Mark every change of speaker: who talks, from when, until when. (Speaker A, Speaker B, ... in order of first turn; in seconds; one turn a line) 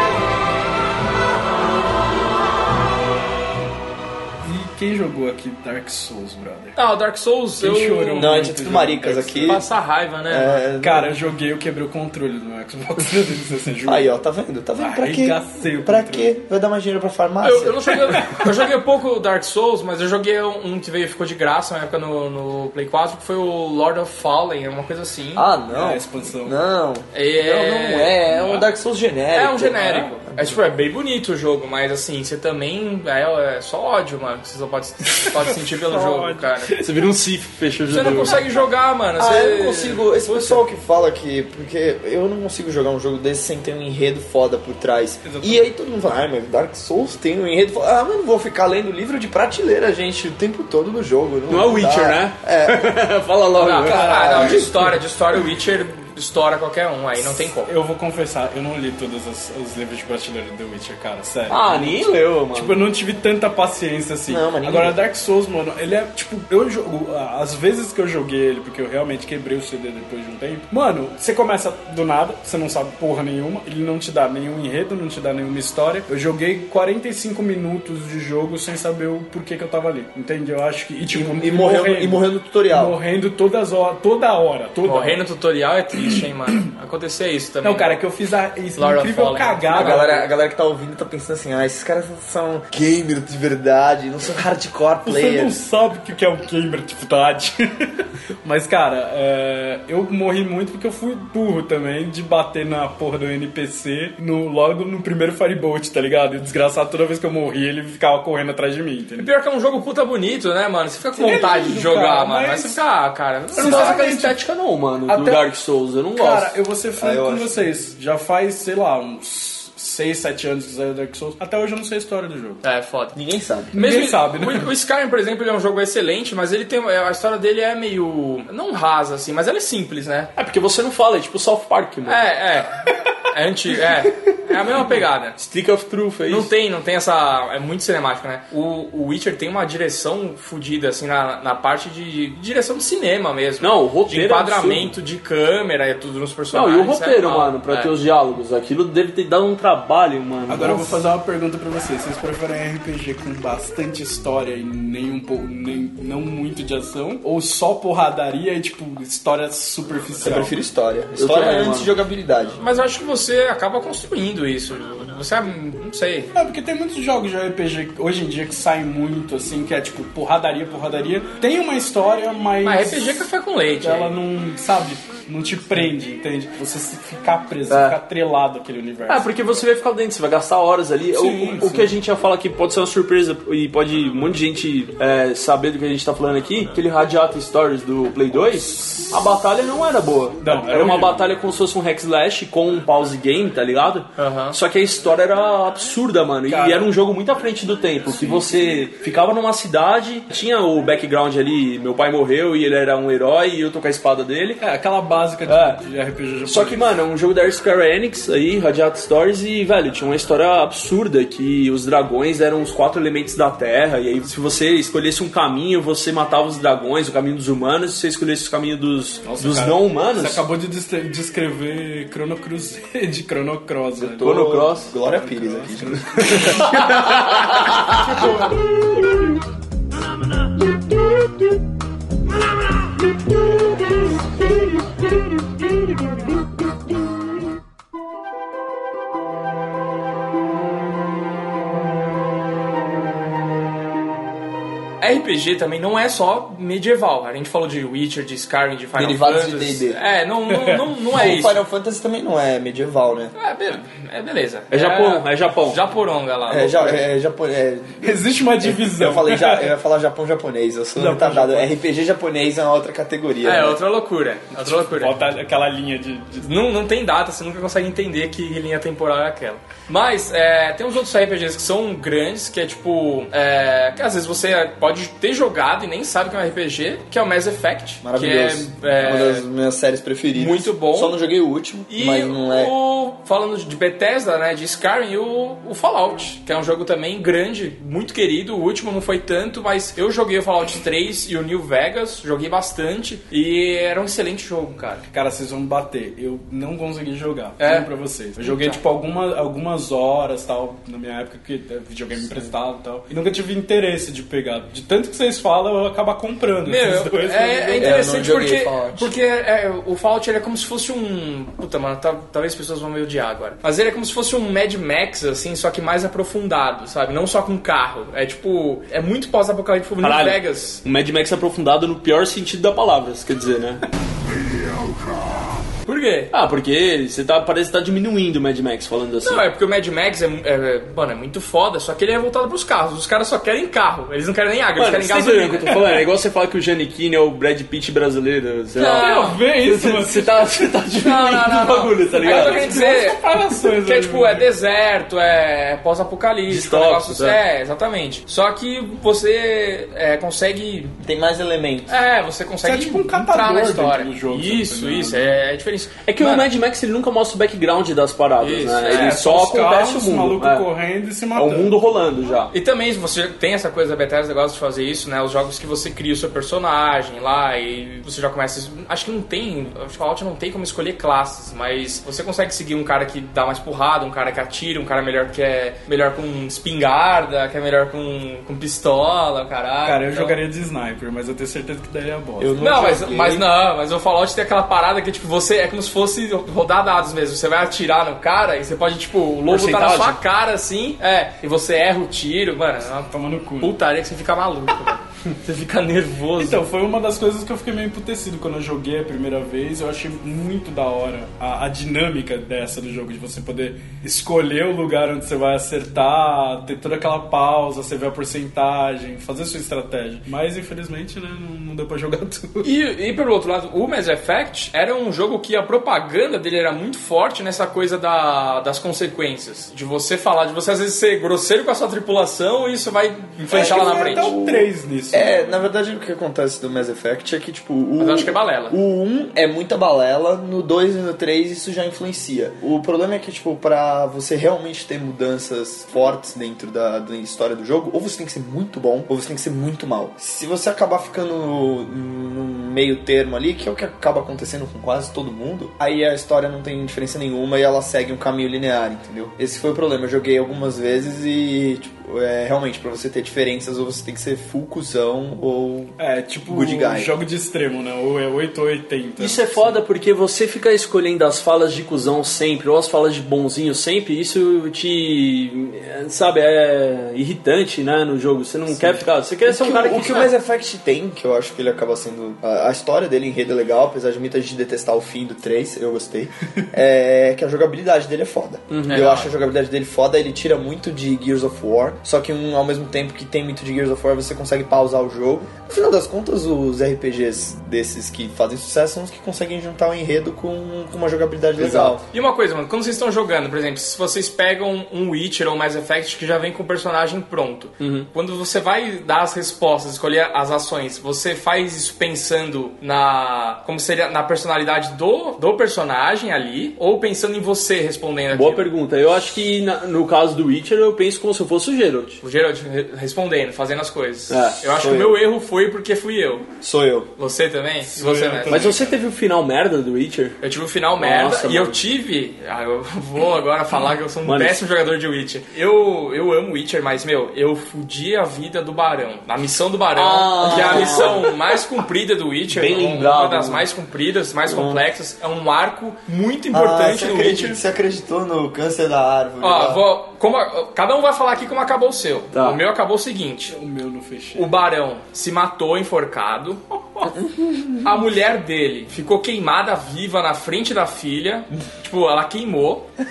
Speaker A: 4.4-6.8
Speaker B: 6.8-8.5
Speaker A: 7.6-9.6
Speaker C: 8.2-9.7
Speaker B: 9.4-10.6
Speaker C: 10.3-11.2
Speaker A: 10.8-14.2
Speaker C: 13.8-18.3
Speaker A: 14.8-16.3
Speaker B: 17.4-25.5
Speaker C: 25.4-30.6
Speaker A: 25.7-26.6
Speaker B: 27.1-28.6
Speaker B: 29.3-36.8
Speaker A: 35.2-37.0
Speaker D: 36.8-38.4
Speaker B: 37.9-40.6
Speaker A: 38.0-38.4
Speaker C: 39.2-52.9
Speaker A: 45.2-45.7
Speaker D: 51.5-54.4
Speaker B: 53.6-57.7
Speaker C: 53.9-55.0
Speaker A: 57.2-85.2
Speaker D: 61.5-62.8
Speaker C: 64.3-65.0
Speaker C: 81.1-83.0
Speaker B: 84.8-88.0
Speaker A: 87.6-90.2
Speaker B: 88.8-90.3
Speaker C: 89.7-95.6
Speaker A: 95.0-109.3
Speaker B: 109.2-114.2
Speaker A: 111.1-112.8
Speaker A: 113.5-114.4
Speaker D: 113.6-116.6
Speaker A: 115.1-115.5
Speaker A: 116.2-122.6
Speaker C: 117.0-117.6
Speaker B: 122.6-123.2
Speaker C: 123.1-123.7
Speaker A: 123.7-124.7
Speaker B: 123.7-130.3
Speaker D: 130.4-132.2
Speaker B: 132.1-135.4
Speaker D: 134.7-136.5
Speaker B: 136.3-147.9
Speaker D: 143.6-144.9
Speaker D: 146.5-151.0
Speaker A: 150.5-160.6
Speaker C: 160.2-162.6
Speaker D: 161.2-161.9
Speaker B: 162.6-166.3
Speaker A: 166.3-173.3
Speaker B: 172.6-174.1
Speaker A: 173.8-179.3
Speaker D: 177.7-178.0
Speaker D: 179.1-204.6
Speaker A: 181.1-181.9
Speaker A: 188.8-189.1
Speaker A: 190.4-191.3
Speaker B: 194.2-194.6
Speaker A: 196.5-196.9
Speaker A: 198.2-198.5
Speaker A: 204.6-206.9
Speaker D: 205.5-205.8
Speaker D: 206.5-220.4
Speaker A: 219.2-224.5
Speaker C: 224.0-227.3
Speaker D: 224.2-224.9
Speaker A: 225.0-227.1
Speaker D: 226.2-228.0
Speaker A: 227.8-228.8
Speaker B: 245.0-251.6
Speaker C: 249.0-250.0
Speaker C: 251.1-253.3
Speaker B: 253.4-257.1
Speaker D: 254.7-255.8
Speaker C: 256.5-263.8
Speaker A: 258.0-259.7
Speaker A: 261.0-261.8
Speaker B: 263.4-265.2
Speaker A: 264.6-266.5
Speaker B: 266.4-279.4
Speaker C: 278.0-282.7
Speaker B: 280.3-281.1
Speaker B: 281.9-295.0
Speaker A: 295.1-308.4
Speaker B: 297.6-297.9
Speaker B: 298.4-298.8
Speaker B: 306.6-320.8
Speaker C: 307.8-309.1
Speaker D: 320.0-323.8
Speaker B: 325.9-326.3
Speaker D: 326.3-329.5
Speaker B: 329.2-335.9
Speaker D: 334.8-342.9
Speaker B: 338.8-339.4
Speaker A: 339.0-340.7
Speaker B: 341.0-350.9
Speaker A: 342.1-344.5
Speaker D: 346.5-347.4
Speaker C: 351.0-352.0
Speaker B: 351.9-356.5
Speaker A: 352.6-355.4
Speaker D: 356.1-360.7
Speaker B: 358.4-359.3
Speaker A: 358.9-361.8
Speaker D: 361.4-362.5
Speaker B: 362.5-380.4
Speaker A: 379.8-382.6
Speaker C: 382.4-383.5
Speaker B: 382.6-396.6
Speaker D: 389.5-390.2
Speaker A: 393.1-393.8
Speaker A: 396.4-412.7
Speaker B: 412.6-424.3
Speaker A: 423.5-425.7
Speaker C: 423.5-456.0
Speaker B: 428.0-428.8
Speaker A: 456.0-459.8
Speaker C: 456.5-457.1
Speaker D: 459.2-470.3
Speaker C: 469.4-492.0
Speaker D: 478.7-479.2
Speaker B: 478.9-479.3
Speaker D: 491.6-492.0
Speaker B: 492.1-508.7
Speaker D: 497.8-498.1
Speaker D: 508.3-512.2
Speaker B: 512.2-516.5
Speaker D: 514.3-514.6
Speaker C: 514.7-515.2
Speaker C: 516.6-517.1
Speaker B: 517.2-518.8
Speaker A: 517.8-519.0
Speaker D: 518.5-520.4
Speaker B: 520.4-537.6
Speaker D: 521.0-521.8
Speaker D: 524.2-524.6
Speaker D: 530.0-531.6
Speaker C: 530.5-531.1
Speaker D: 532.5-533.7
Speaker D: 534.5-534.8
Speaker C: 536.5-539.8
Speaker B: 539.4-543.5
Speaker D: 542.3-542.6
Speaker A: 543.5-544.5
Speaker B: 544.4-547.1
Speaker C: 547.1-547.9
Speaker B: 547.8-552.9